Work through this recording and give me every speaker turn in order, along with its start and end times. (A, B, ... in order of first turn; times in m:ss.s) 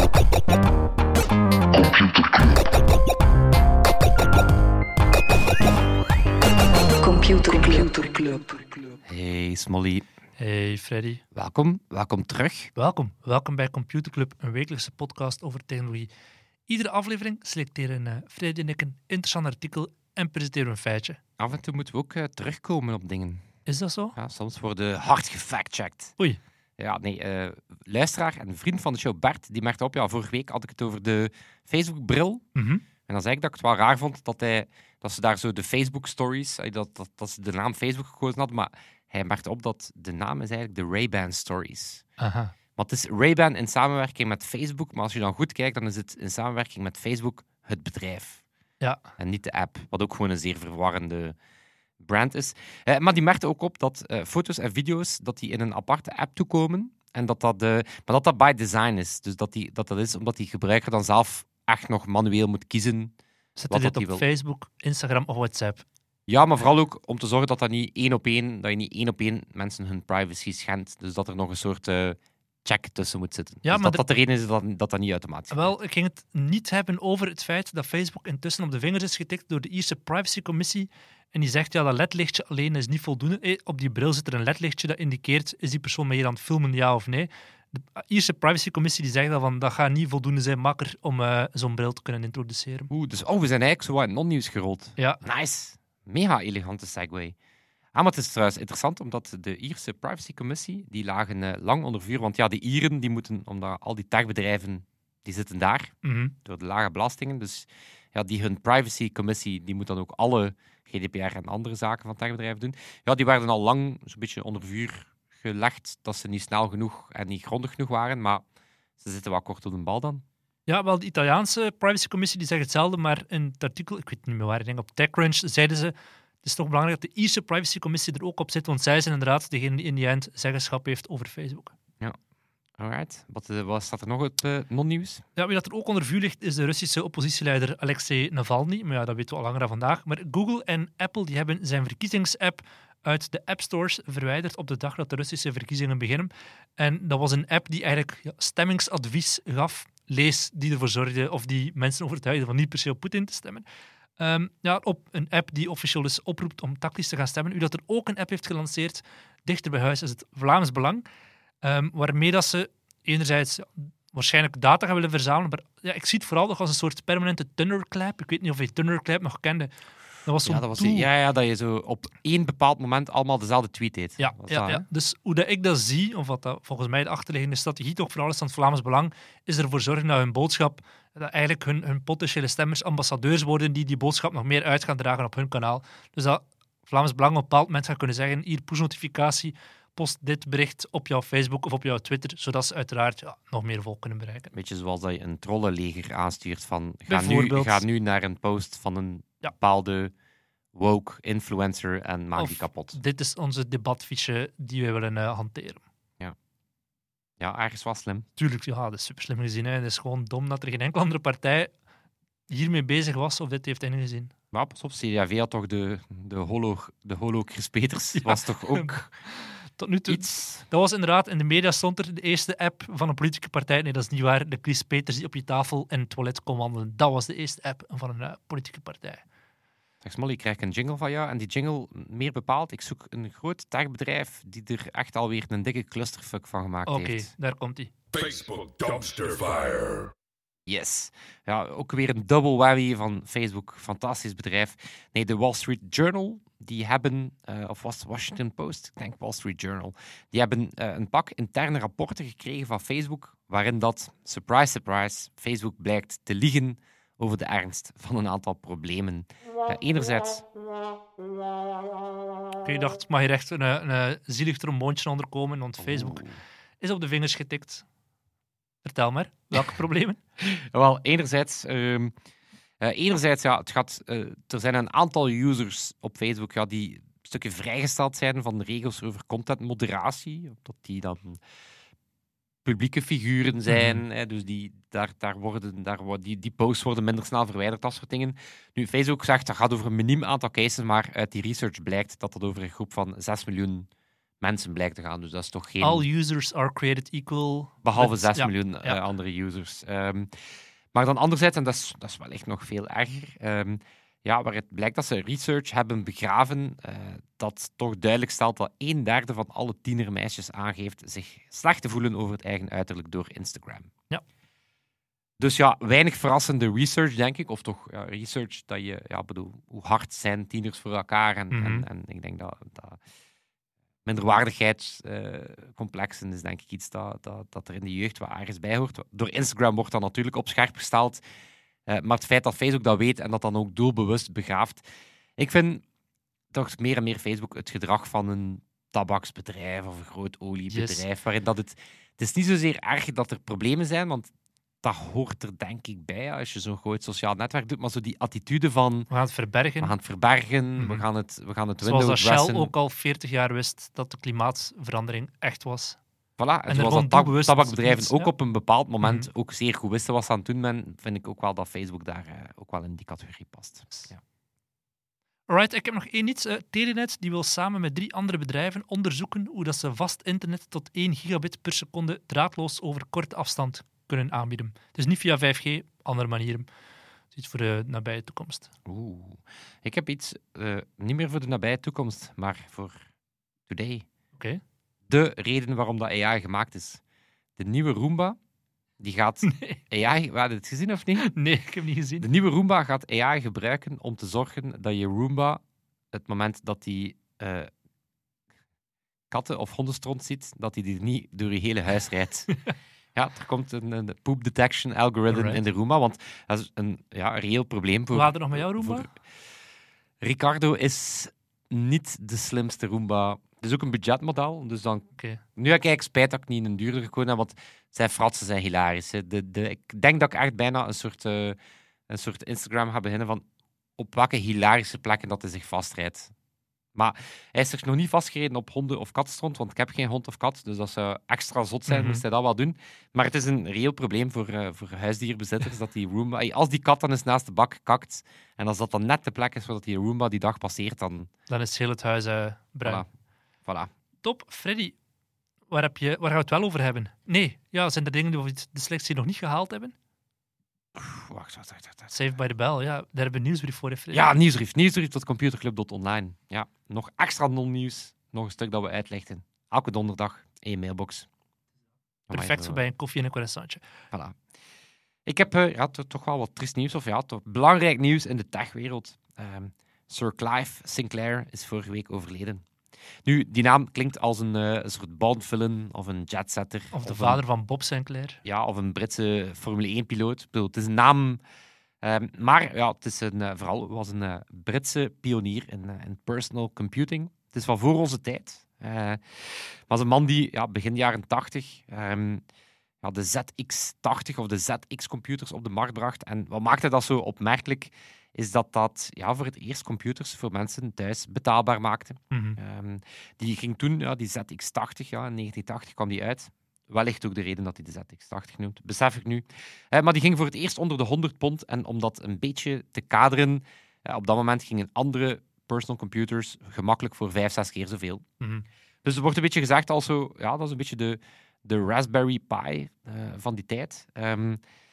0:01.7-0:02.7 A
0:07.0-0:09.0 B
0:09.1-0:10.1 C
0:10.4-0:11.2 D
0:11.3-0:12.7 C
0:12.8-0:16.1 D
0:16.7-0:21.2 D
0:21.4-0:23.4 C
0:23.7-0:24.2 D
0:24.2-0:26.1 C
0:26.8-0:32.5 C
0:32.6-0:32.8 D
0:33.1-0:42.0 C
0:42.2-0:42.5 D
0:42.8-0:48.4 C
0:49.2-0:51.4 C
0:52.0-1:03.2 C
1:03.6-1:05.8 D
1:03.7-1:04.2 C
1:06.3-1:15.7 C
1:13.6-1:14.0 D
1:15.5-1:32.9 D
1:32.9-1:37.4 C
1:35.0-1:35.2 D
1:37.9-1:58.4 C
1:46.0-1:46.3 D
1:59.0-2:00.2 C
2:00.7-2:11.7 D
2:12.8-2:15.2 C
2:15.4-2:33.6 D
2:34.2-2:41.0 D
2:41.6-2:49.7 D
2:50.2-2:51.1 D
2:50.4-2:54.8 C
2:54.2-3:14.5 D
3:14.5-3:20.1 C
3:17.1-3:17.8 D
3:20.7-3:23.0 C
3:22.4-3:25.8 D
3:27.4-3:28.3 C
3:28.4-3:31.7 D
3:32.5-3:34.3 D
3:34.5-3:39.1 C
3:38.2-3:49.2 D
3:40.1-3:40.6 C
3:50.0-3:57.3 C
3:56.9-3:57.9 D
3:58.1-4:00.1 A
4:00.7-4:20.4 C
4:22.6-4:26.2 D
4:25.8-4:26.4 C
4:26.8-4:27.8 D
4:28.8-4:30.2 D
4:30.4-4:32.1 C
4:32.8-4:41.4 C
4:42.6-4:53.9 C
4:43.7-4:44.0 D
4:54.4-4:56.0 C
4:55.8-4:59.0 D
4:57.8-5:00.3 C
5:00.9-5:13.9 C
5:15.4-5:23.0 C
5:21.5-5:21.9 D
5:24.0-5:31.2 C
5:31.9-5:34.8 C
5:35.4-5:35.8 C
5:36.5-5:44.3 C
5:40.7-5:41.0 D
5:44.8-5:49.1 C
5:49.1-5:49.9 D
5:49.8-5:52.7 C
5:50.8-5:51.1 D
5:51.8-5:56.0 D
5:56.4-6:04.2 C
5:56.7-5:58.3 D
5:59.0-5:59.3 D
6:05.5-6:16.7 D
6:17.3-6:18.7 D
6:18.9-6:23.0 C
6:23.7-6:24.0 C
6:25.1-6:27.0 C
6:27.6-6:28.4 C
6:29.0-6:31.3 C
6:29.5-6:29.8 D
6:31.2-6:32.3 D
6:32.2-6:37.7 C
6:39.3-6:42.5 C
6:43.2-6:49.2 C
6:45.3-6:45.6 D
6:48.1-6:49.1 D
6:50.2-7:01.6 C
7:02.1-7:03.4 C
7:04.0-7:06.3 C
7:07.0-7:21.3 C
7:11.9-7:12.2 D
7:21.5-7:23.0 D
7:24.2-7:25.0 D
7:25.7-7:30.0 D
7:31.0-7:32.1 C
7:32.1-7:34.3 D
7:34.1-7:41.3 C
7:42.3-7:42.8 C
7:42.3-7:43.8 D
7:44.1-7:44.4 C
7:45.3-7:52.6 C
7:53.2-7:57.4 C
7:56.9-7:58.4 D
7:58.4-8:01.4 C
8:02.0-8:12.4 C
8:13.0-8:38.2 C
8:22.3-8:22.6 D
8:38.4-8:38.7 D
8:39.0-8:44.6 C